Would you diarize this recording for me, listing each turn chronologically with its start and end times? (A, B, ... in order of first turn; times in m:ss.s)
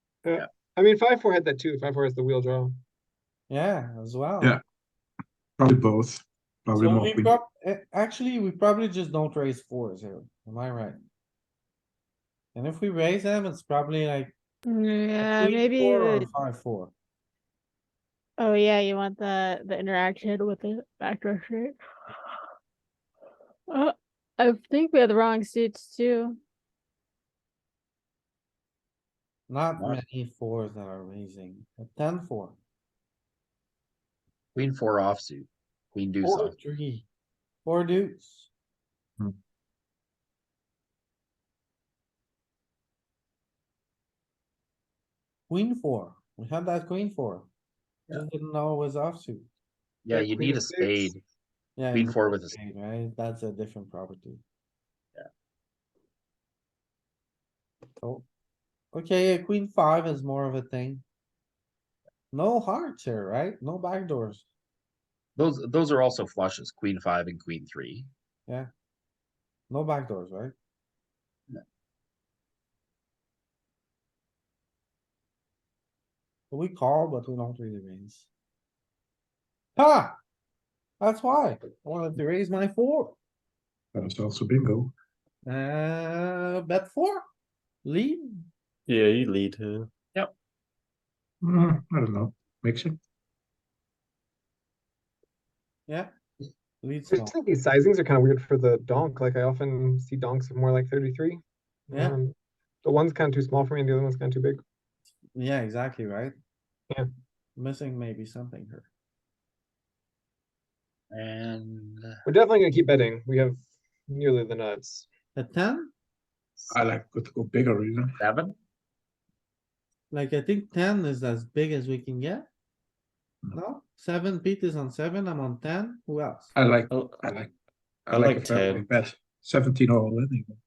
0:00.2-0:02.8 A
0:03.5-0:04.5 B
0:05.6-0:07.4 C
0:06.7-0:11.0 B
0:12.5-0:14.3 B
0:14.6-0:16.3 D
0:15.2-0:16.9 B
0:18.4-0:21.8 D
0:23.7-0:26.4 D
0:29.5-0:32.6 B
0:34.5-0:36.5 E
0:36.2-0:37.0 B
0:37.6-0:38.5 B
0:45.5-0:47.5 B
0:48.1-0:49.5 B
0:50.0-0:51.2 E
0:50.1-0:51.1 A
0:51.8-0:54.4 B
0:51.9-0:52.6 E
0:58.0-0:58.2 B
0:58.9-1:01.0 B
1:02.3-1:04.4 B
1:05.4-1:08.1 E
1:09.7-1:10.5 B
1:16.5-1:18.3 B
1:19.8-1:20.2 B
1:21.0-1:23.1 B
1:23.9-1:24.9 C
1:25.4-1:27.2 B
1:27.8-1:28.5 B
1:28.9-1:29.7 F
1:31.4-1:33.0 C
1:36.8-1:37.3 B
1:37.1-1:44.6 A
1:41.9-1:42.2 B
1:45.3-1:46.3 B
1:47.6-1:48.9 B
1:51.1-1:52.2 E
1:52.2-1:53.6 A
1:54.1-1:55.1 A
1:55.4-1:55.9 B
1:56.7-1:58.2 C
1:58.2-1:58.5 E
2:00.1-2:02.4 B
2:03.5-2:06.5 B
2:06.5-2:07.5 C
2:06.9-2:07.2 F
2:08.1-2:08.8 F
2:08.1-2:10.6 C